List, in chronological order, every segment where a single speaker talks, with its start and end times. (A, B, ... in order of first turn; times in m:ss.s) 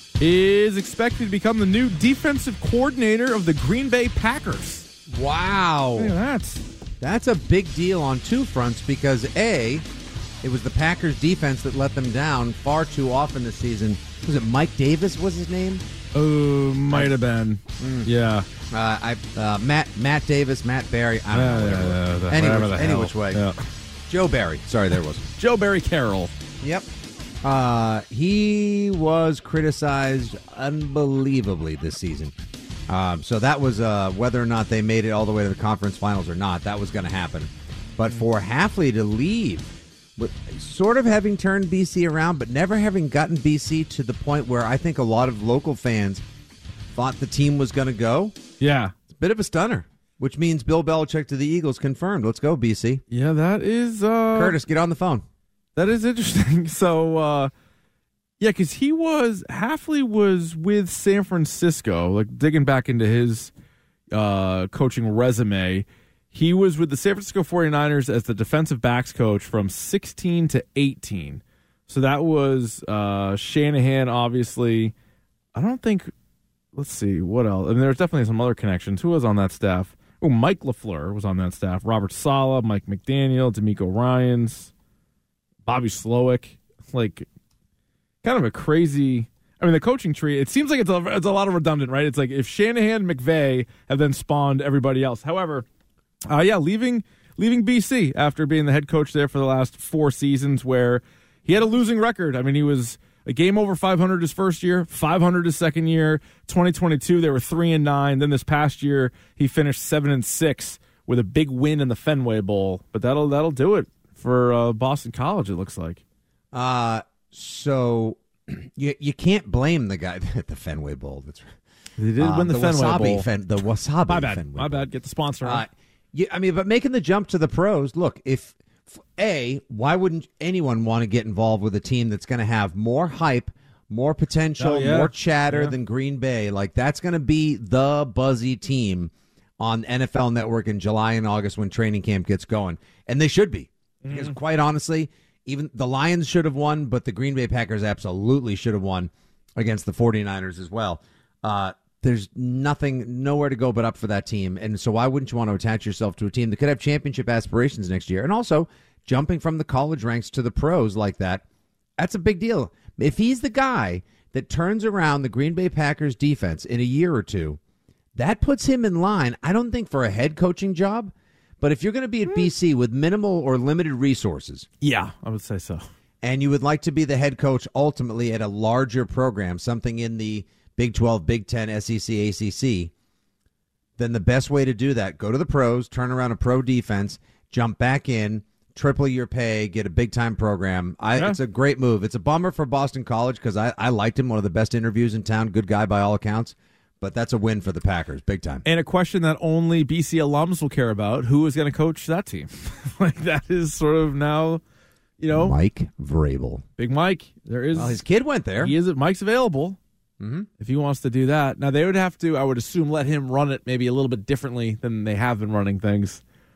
0:00.2-0:04.9 A
0:05.1-0:06.1 B
0:06.0-0:06.6 A
0:07.0-0:09.8 B
0:10.4-0:15.8 B
0:16.1-0:18.5 A
0:17.8-0:18.1 B
0:18.7-0:23.4 B
0:21.3-0:23.6 A
0:24.1-0:25.2 B
0:25.4-0:26.3 A
0:26.6-0:26.9 B
0:27.4-0:32.3 B
0:32.9-0:46.2 B
0:46.9-0:48.4 B
0:48.6-0:48.9 A
0:49.1-0:53.0 B
0:53.1-0:54.6 A
0:54.3-0:55.2 B
0:55.8-0:57.5 A
0:58.4-1:03.5 A
1:04.1-1:14.9 A
1:15.5-1:16.1 A
1:16.7-1:24.7 A
1:25.6-1:27.3 A
1:28.2-1:35.6 A
1:36.3-1:56.0 A
1:56.5-2:01.6 B
2:02.0-2:03.3 A
2:02.2-2:04.9 B
2:04.0-2:05.6 A
2:05.4-2:41.4 B
2:14.6-2:15.8 A
2:24.0-2:24.3 A
2:42.0-2:47.6 B
2:48.1-2:54.7 B
2:54.8-2:55.8 A
2:56.2-3:02.9 B
3:04.0-3:18.6 B
3:18.6-3:24.6 A
3:25.2-3:25.6 A
3:25.3-3:26.6 B
3:26.8-3:28.0 A
3:27.7-3:28.7 B
3:28.6-3:29.8 A
3:30.2-3:30.5 B
3:30.6-3:36.2 A